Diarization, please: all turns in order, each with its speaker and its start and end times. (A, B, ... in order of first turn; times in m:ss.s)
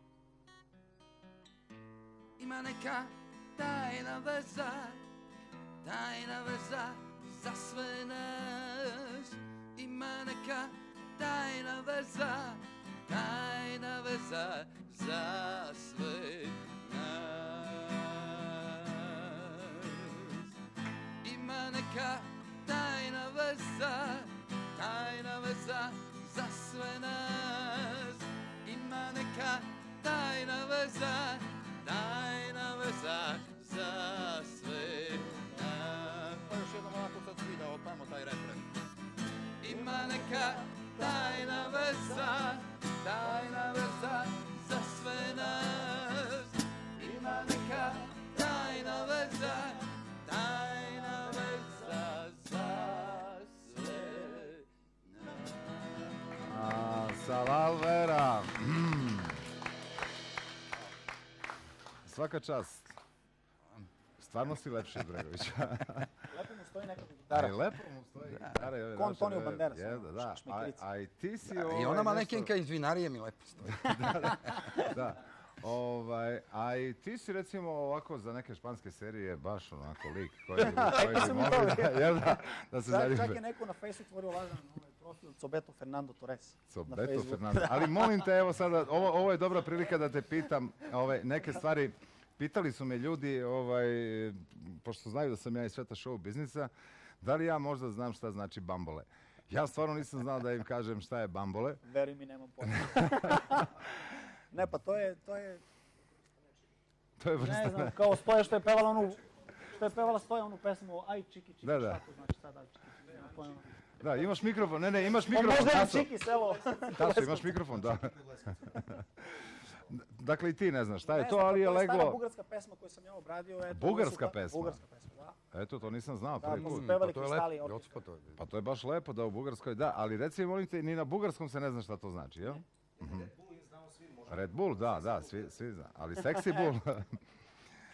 0:02.4-0:05.0 A
0:05.8-0:20.5 A
0:21.2-0:38.7 A
0:39.6-0:56.5 A
0:56.5-0:59.4 B
1:02.0-1:03.0 B
1:04.2-1:06.1 B
1:06.3-1:07.6 C
1:07.3-1:12.5 B
1:08.9-1:10.8 C
1:11.6-1:14.9 A
1:13.7-1:23.4 B
1:20.6-1:28.2 C
1:26.7-1:41.8 B
1:41.9-1:43.9 C
1:42.9-1:43.6 B
1:44.5-1:45.6 C
1:47.2-1:48.2 B
1:47.4-1:53.6 C
1:51.6-1:52.0 B
1:54.0-1:56.1 B
1:55.3-1:57.6 C
1:56.9-2:02.2 B
2:01.1-2:05.4 C
2:03.7-2:04.8 B
2:05.5-2:07.0 B
2:06.4-2:07.9 C
2:06.5-2:08.4 A
2:08.4-2:13.5 B
2:14.1-2:17.2 B